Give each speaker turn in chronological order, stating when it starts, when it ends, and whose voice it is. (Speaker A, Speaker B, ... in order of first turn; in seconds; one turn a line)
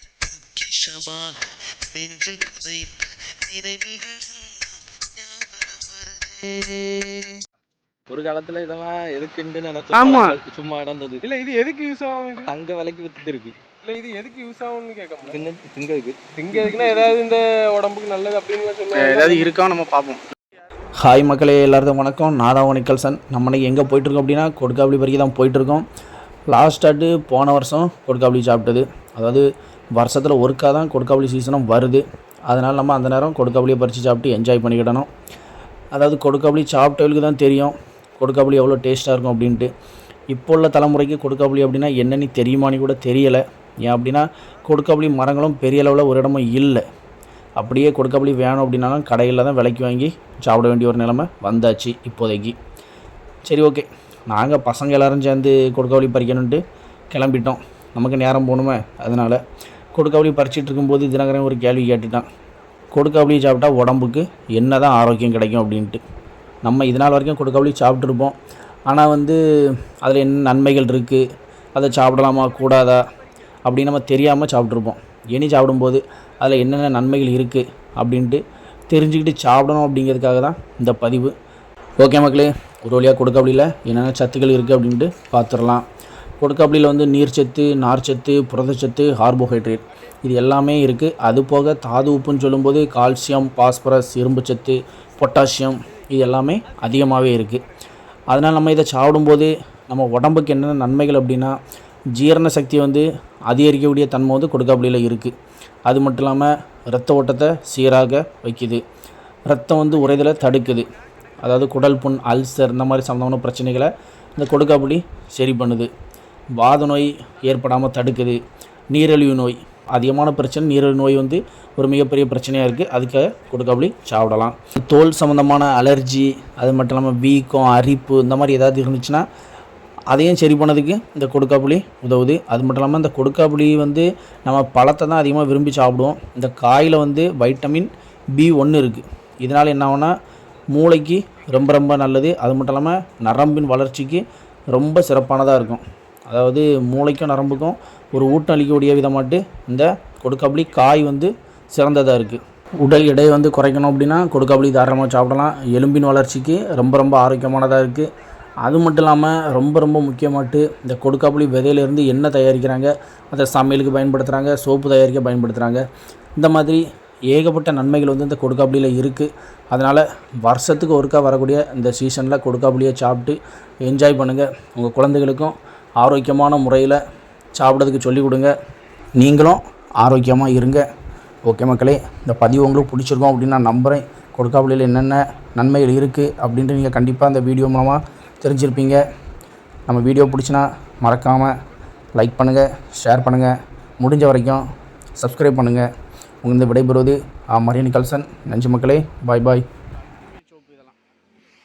Speaker A: 0.5-4.4
Speaker A: 5.2-7.4
Speaker B: 8.1-11.2
Speaker C: 9.9-10.3
Speaker D: 11.2-12.5
Speaker B: 12.4-13.5
Speaker D: 13.8-15.4
Speaker B: 15.2-17.1
Speaker D: 16.4-19.6
Speaker C: 18.9-20.2
Speaker C: 21.0-25.9
Speaker C: 26.5-35.1
Speaker C: 35.9-39.7
Speaker C: 40.3-46.8
Speaker C: 47.6-52.5
Speaker C: 53.5-59.4
Speaker C: 59.9-62.3
Speaker C: 62.9-66.0
Speaker C: 66.6-68.3
Speaker C: 68.9-69.4
Speaker C: 70.0-71.2
Speaker C: 71.7-73.0
Speaker C: 73.6-81.3
Speaker C: 82.0-85.8
Speaker C: 86.4-97.6
Speaker C: 98.3-101.5
Speaker C: 102.1-105.3
Speaker C: 105.9-108.8
Speaker C: 109.5-110.9
Speaker C: 111.4-115.9
Speaker C: 116.6-118.4
Speaker C: 118.9-129.2
Speaker C: 130.1-140.1
Speaker C: 140.7-158.1
Speaker C: 158.6-165.8
Speaker C: 166.4-177.0
Speaker C: 177.5-178.5
Speaker C: 179.2-180.8
Speaker C: 181.4-189.0
Speaker C: 189.9-191.5
Speaker C: 192.2-194.6
Speaker C: 195.2-195.9
Speaker C: 196.4-199.6
Speaker D: 200.2-200.9